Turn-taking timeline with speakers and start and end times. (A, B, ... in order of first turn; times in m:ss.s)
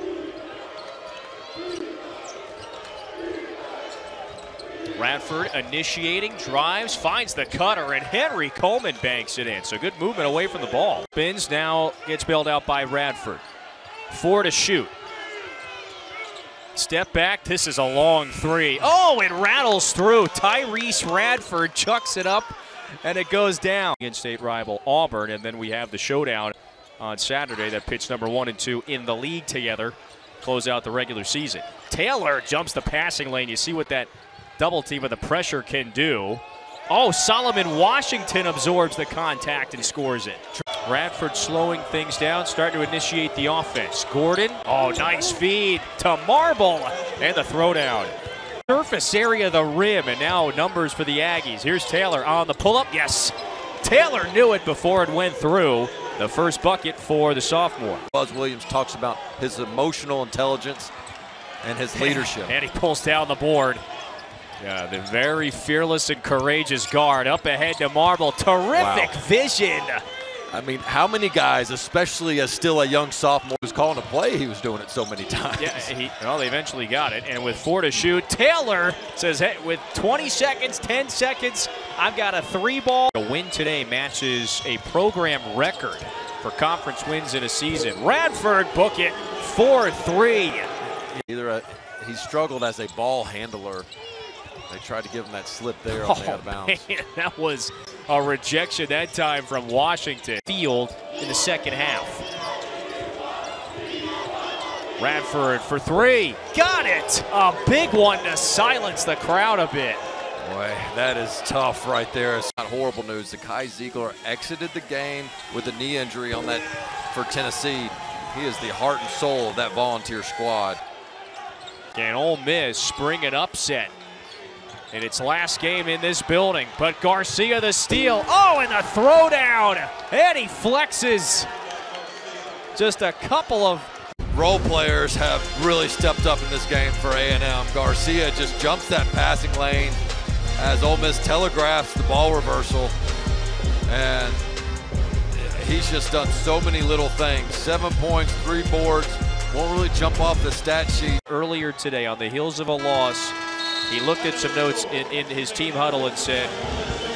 0:04.9-0:13.4 A
0:14.1-0:14.9 A
0:16.7-0:48.1 A
0:48.7-0:58.0 A
0:58.1-1:00.9 B
1:01.6-1:02.6 B
1:01.9-1:03.8 A
1:04.6-1:10.0 A
1:08.7-1:09.2 B
1:10.5-1:15.9 B
1:15.6-1:30.7 A
1:31.1-1:33.9 B
1:34.7-1:36.8 B
1:35.9-1:42.2 A
1:45.0-1:50.0 A
1:50.4-2:00.8 B
2:01.9-2:03.9 A
2:04.9-2:11.5 A
2:12.7-2:13.9 A
2:14.3-2:20.0 B
2:20.6-2:22.9 B
2:23.9-2:24.4 B
2:25.3-2:31.2 B
2:31.2-2:33.4 A
2:33.9-2:36.5 A